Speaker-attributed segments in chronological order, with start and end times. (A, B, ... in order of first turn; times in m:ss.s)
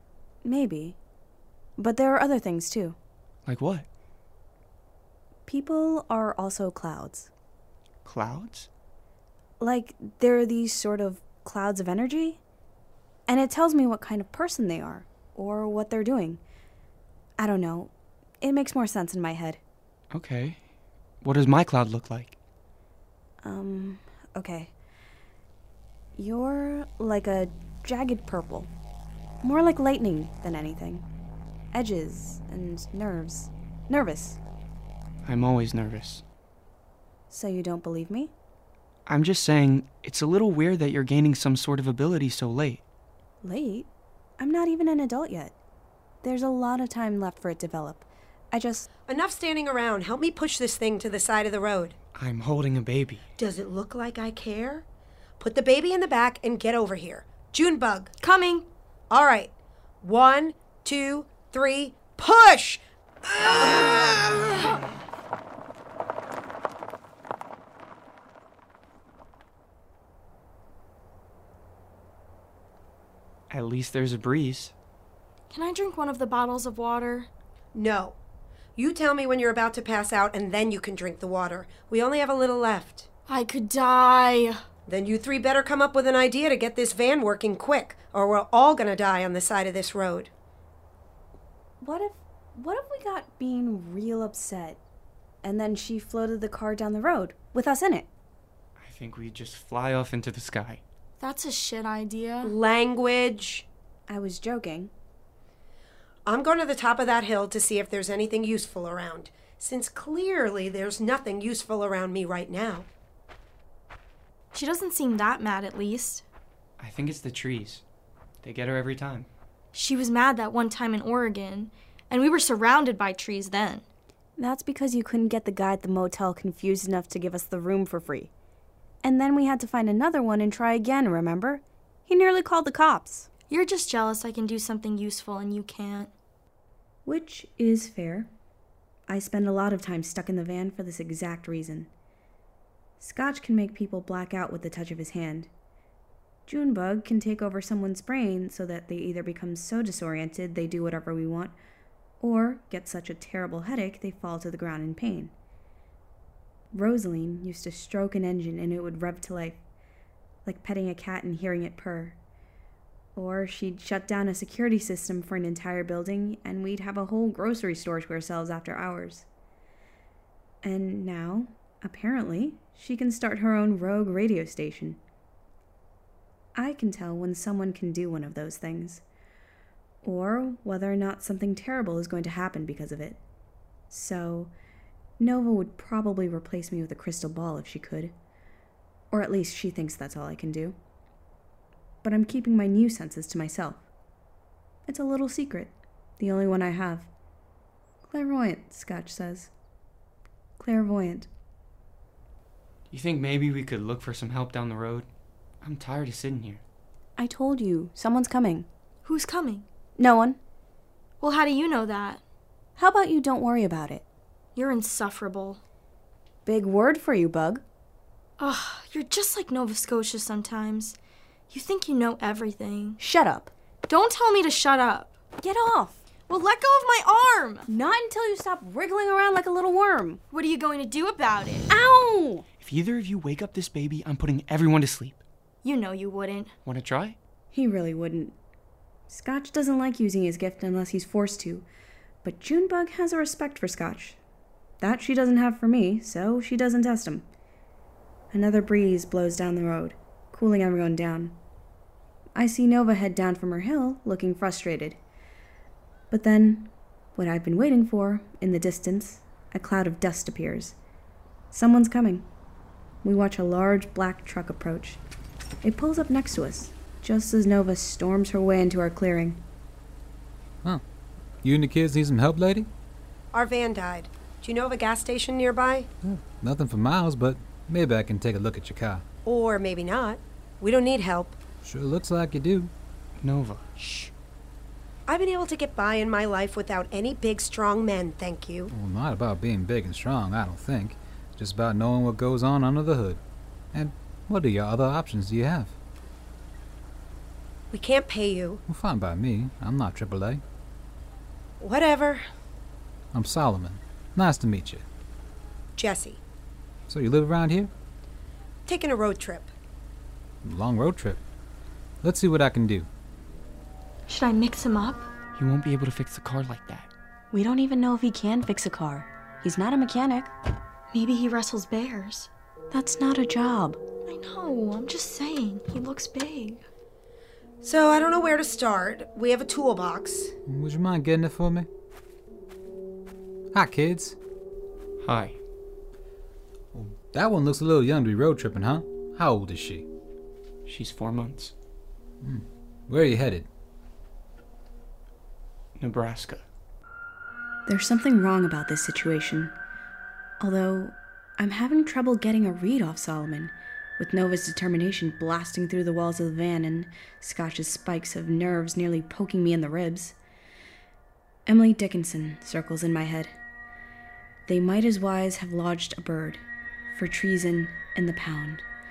0:00.4-0:01.0 A
0:01.8-0:03.0 A
0:03.5-0:03.9 B
0:05.5-0:07.3 A
0:08.0-0:08.7 B
0:09.6-0:12.4 A
0:13.3-0:16.4 A
0:17.4-0:19.6 A
0:20.1-0:20.6 B
0:21.2-0:22.4 B
0:23.4-0:24.7 A
0:26.2-0:28.7 A
0:29.4-0:31.0 A
0:31.7-0:34.4 A
0:35.2-0:36.2 B
0:37.3-0:38.3 A
0:39.1-0:42.8 B
0:43.4-0:45.5 A
0:46.2-0:48.9 A
0:49.1-0:52.0 C
0:52.2-0:53.2 B
0:53.4-0:54.8 C
0:55.4-0:58.1 C
0:58.3-0:58.7 D
0:59.1-0:59.5 C
1:00.0-1:04.7 C
1:13.5-1:14.7 B
1:15.5-1:17.3 D
1:17.8-1:18.2 C
1:18.8-1:23.1 C
1:23.3-1:24.6 D
1:24.9-1:30.3 C
1:31.8-1:34.8 A
1:35.4-1:38.1 A
1:38.8-1:40.8 B
1:41.2-1:42.5 D
1:42.4-1:43.7 C
1:44.1-1:44.9 A
1:46.3-1:52.9 C
1:54.5-1:56.2 D
1:56.8-1:57.8 B
1:58.4-1:59.3 B
1:59.7-2:03.8 D
2:04.4-2:08.3 A
2:09.0-2:13.3 A
2:13.5-2:16.1 D
2:17.1-2:18.3 A
2:19.1-2:21.9 A
2:23.0-2:25.5 A
2:26.5-2:31.6 A
2:32.2-2:35.3 A
2:36.7-2:39.6 A
2:40.4-2:42.2 A
2:43.2-2:49.3 A
2:50.6-2:55.0 A
2:56.6-2:59.0 A
3:00.0-3:03.2 A
3:03.9-3:04.5 A
3:05.2-3:08.2 A
3:09.1-3:10.8 A
3:12.0-3:13.8 A
3:14.9-3:17.1 A
3:18.0-3:19.5 A
3:20.6-3:21.3 A
3:22.9-3:25.1 B
3:25.6-3:26.6 B
3:27.2-3:28.7 A
3:29.0-3:29.6 D
3:30.0-3:30.4 A
3:31.2-3:32.2 D
3:32.8-3:34.0 A
3:34.6-3:35.6 D
3:36.5-3:37.6 A
3:38.4-3:41.0 D
3:41.5-3:43.0 D
3:43.0-3:43.5 A
3:43.9-3:45.1 D
3:45.4-3:46.0 A
3:46.3-3:47.7 D
3:47.7-3:50.2 A
3:50.3-3:51.6 D
3:51.7-3:52.4 A
3:52.6-3:55.2 B
3:55.6-3:56.5 D
3:56.7-3:57.2 B
3:57.5-3:58.4 A
3:59.1-4:01.7 A
4:02.2-4:04.2 A
4:04.8-4:07.3 A
4:08.3-4:11.4 A
4:12.4-4:15.0 A
4:16.1-4:20.8 A
4:21.5-4:22.3 A
4:23.0-4:25.0 A
4:25.6-4:29.4 A
4:31.4-4:32.7 E
4:33.3-4:35.9 C
4:36.0-4:39.0 E
4:39.2-4:41.4 C
4:41.6-4:42.7 E
4:43.2-4:43.6 B
4:43.8-4:44.1 C
4:45.1-4:48.7 C
4:48.7-4:53.2 E
4:53.7-4:55.7 E
4:57.7-4:58.6 C
4:58.7-5:00.4 E
5:01.6-5:02.2 C
5:03.1-5:04.8 E
5:05.8-5:06.2 C
5:06.9-5:07.7 E
5:08.7-5:09.5 C
5:10.4-5:11.2 E
5:12.0-5:12.9 E
5:14.1-5:15.0 D
5:15.4-5:16.9 B
5:17.3-5:20.3 A
5:20.9-5:22.3 D
5:22.7-5:23.8 A
5:24.1-5:26.6 D
5:27.6-5:30.3 C
5:30.5-5:31.7 E
5:33.5-5:34.2 E
5:35.0-5:35.4 B
5:36.7-5:39.9 E
5:40.7-5:41.5 B
5:42.2-5:43.5 E
5:45.8-5:46.4 B
5:47.7-5:49.5 A
5:50.4-6:00.2 A
6:01.5-6:03.3 A
6:04.5-6:06.4 A
6:06.9-6:08.6 A